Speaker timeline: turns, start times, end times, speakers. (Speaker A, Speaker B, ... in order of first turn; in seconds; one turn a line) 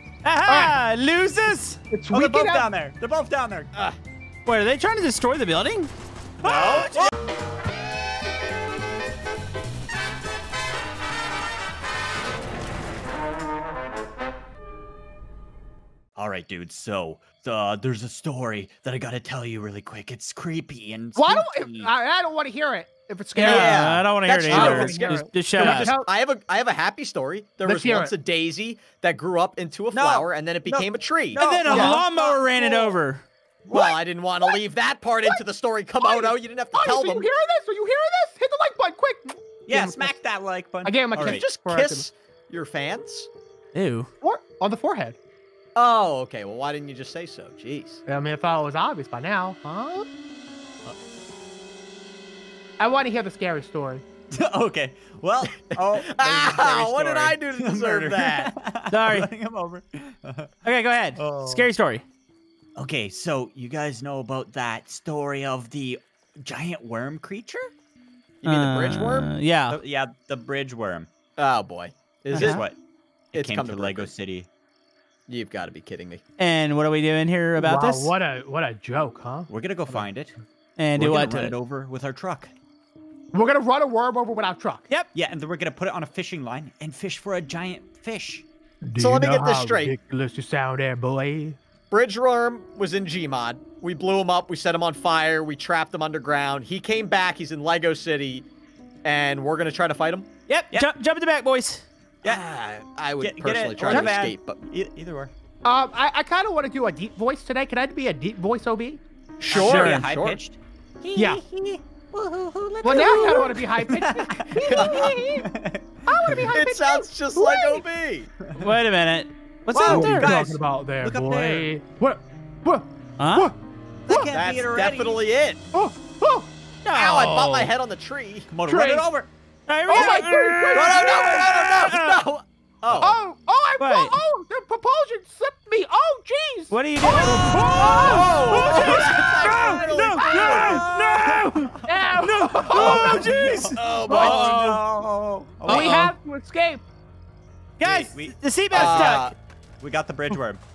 Speaker A: 0.2-1.8
Speaker B: 0.5-0.8
Speaker B: 1.9-2.7
Speaker C: 2.1-3.7
Speaker A: 4.5-5.9
Speaker C: 6.4-7.1
Speaker A: 6.4-7.1
Speaker C: 16.2-21.9
Speaker B: 21.1-26.1
Speaker C: 23.4-23.7
Speaker A: 23.4-25.9
Speaker D: 23.4-32.0
Speaker C: 24.5-25.1
Speaker B: 27.6-28.1
Speaker C: 29.9-32.5
Speaker A: 31.3-33.2
Speaker B: 31.7-32.0
Speaker C: 33.7-34.0
Speaker D: 33.7-37.3
Speaker B: 36.0-40.2
Speaker C: 39.7-41.5
Speaker B: 40.8-42.1
Speaker D: 41.1-43.3
Speaker A: 43.7-44.1
Speaker B: 44.2-45.2
Speaker D: 45.8-48.0
Speaker B: 48.1-50.1
Speaker B: 52.8-54.0
Speaker C: 54.3-60.5
Speaker D: 55.5-58.5
Speaker A: 58.9-59.3
Speaker A: 60.6-62.0
Speaker C: 61.2-61.7
Speaker C: 62.8-67.7
Speaker D: 68.4-69.3
Speaker A: 68.5-69.8
Speaker C: 69.7-71.1
Speaker D: 71.4-72.7
Speaker C: 72.3-72.8
Speaker A: 72.3-72.6
Speaker C: 73.3-74.5
Speaker D: 73.3-74.1
Speaker D: 75.3-76.2
Speaker A: 76.4-78.1
Speaker B: 77.6-79.5
Speaker C: 79.5-80.4
Speaker A: 80.8-81.6
Speaker C: 81.0-82.5
Speaker B: 83.3-84.9
Speaker C: 85.1-88.5
Speaker B: 88.8-91.6
Speaker D: 89.0-89.9
Speaker D: 91.9-98.5
Speaker D: 99.0-100.3
Speaker A: 100.5-101.8
Speaker D: 102.2-104.6
Speaker C: 103.2-105.3
Speaker B: 103.9-104.1
Speaker B: 105.6-109.0
Speaker D: 109.4-110.4
Speaker C: 109.5-115.8
Speaker A: 109.6-110.1
Speaker B: 111.1-111.4
Speaker B: 112.8-115.5
Speaker D: 112.9-113.2
Speaker D: 114.7-115.1
Speaker B: 116.1-117.8
Speaker D: 116.3-118.3
Speaker A: 118.5-120.4
Speaker C: 119.7-121.7
Speaker B: 119.8-123.6
Speaker A: 123.2-123.5
Speaker C: 124.1-125.2
Speaker B: 124.1-124.3
Speaker D: 124.3-125.6
Speaker B: 125.7-126.5
Speaker A: 126.8-127.7
Speaker D: 126.9-128.5
Speaker C: 128.5-129.3
Speaker B: 128.7-129.1
Speaker A: 129.7-132.3
Speaker B: 129.9-131.7
Speaker D: 130.7-133.2
Speaker B: 133.0-140.9
Speaker A: 133.8-134.2
Speaker A: 136.7-144.8
Speaker C: 137.2-139.6
Speaker D: 137.3-141.2
Speaker C: 140.2-146.0
Speaker B: 141.8-144.5
Speaker D: 143.7-144.5
Speaker A: 145.7-146.1
Speaker B: 145.7-146.8
Speaker A: 147.8-149.3
Speaker C: 147.8-149.2
Speaker D: 148.7-149.3
Speaker C: 149.8-150.6